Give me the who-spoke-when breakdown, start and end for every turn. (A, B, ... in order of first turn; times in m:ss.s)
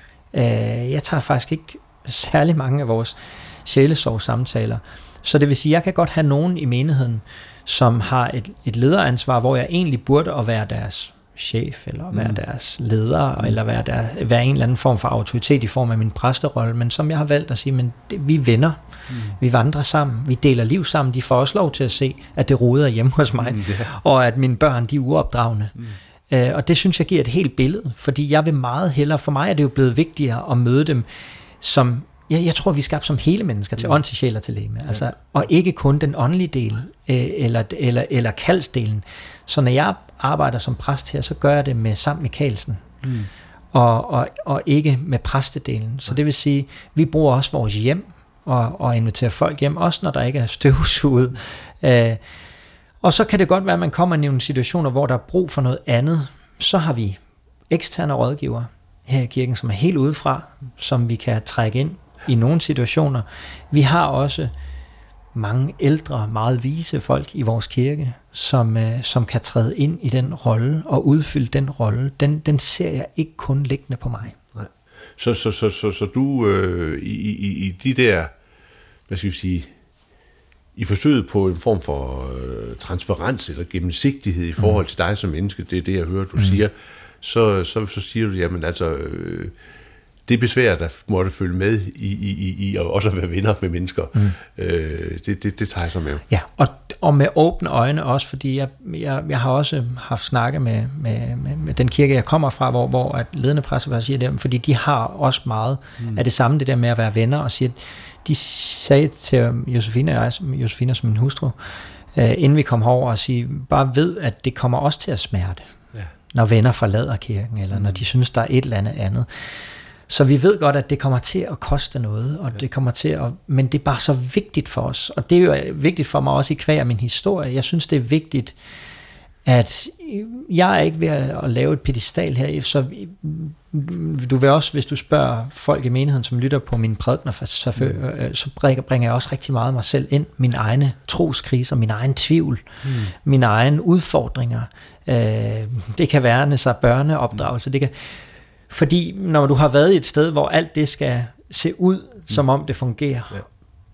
0:00.3-0:18.8 A
0:12.1-0:12.4 B
0:19.1-0:19.4 B
0:19.4-0:25.7 A
0:23.4-0:23.9 B
0:26.3-0:31.0 A
0:31.6-0:42.8 A
0:43.0-0:43.3 B
0:43.7-0:52.2 A
0:53.0-1:04.5 A
1:05.3-1:14.3 A
1:14.5-1:18.3 B
1:19.1-1:19.7 B
1:20.7-1:29.5 B
1:30.3-1:36.2 B
1:36.3-1:51.6 A
1:52.1-1:55.7 A
1:56.3-1:59.3 A
1:57.7-1:58.0 B
2:00.1-2:08.6 A
2:09.4-2:22.6 A
2:22.8-2:23.1 B
2:23.2-2:28.1 A
2:28.7-2:33.4 A